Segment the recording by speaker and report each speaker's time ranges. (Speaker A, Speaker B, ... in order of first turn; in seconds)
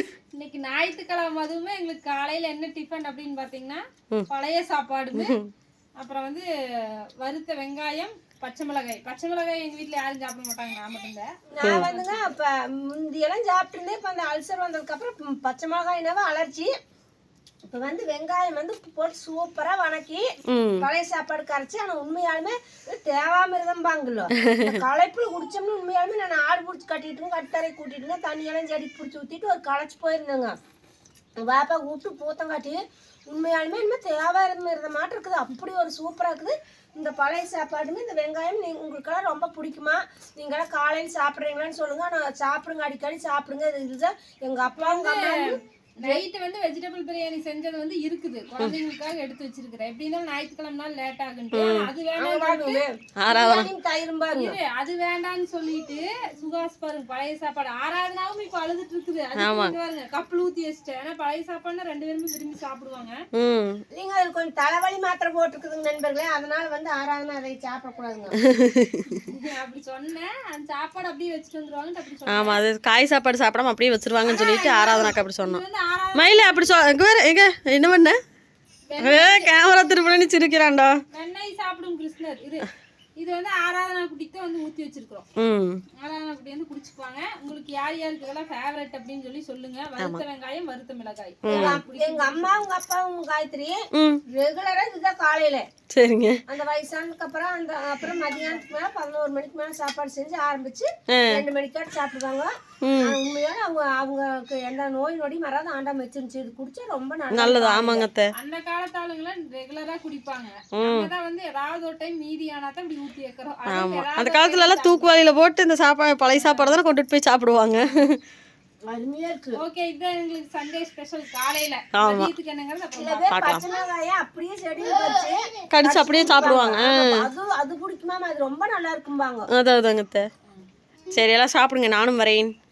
Speaker A: 0.3-5.3, 6.0-6.4, 7.2-12.2, 44.8-52.8, 54.3-63.2, 69.1-72.6, 74.3-76.6, 78.9-79.5, 81.1-85.3, 86.0-92.6, 98.1-98.6, 108.3-115.1, 116.3-116.8, 119.5-123.5
Speaker B: 5.1-5.5, 20.5-20.9, 24.4-24.8, 51.5-51.9, 53.2-53.7, 59.4-59.8, 63.4-63.8, 68.4-69.2, 72.3-75.6, 76.2-78.2, 79.0-81.0, 85.4-85.8, 91.5-91.8, 93.9-94.2, 95.9-96.4, 101.1-101.4, 102.8-103.2, 107.3-108.3, 110.7-111.1, 113.7-118.2, 121.9-122.3, 123.3-123.6, 125.7-127.3, 129.5-130.3, 131.1-132.5
Speaker C: 11.5-16.7, 17.7-20.2, 20.8-30.5, 31.4-46.2, 52.2-54.6, 63.9-68.4, 91.5-93.8, 94.3-95.7, 96.5-108.1, 118.9-119.6, 123.0-129.5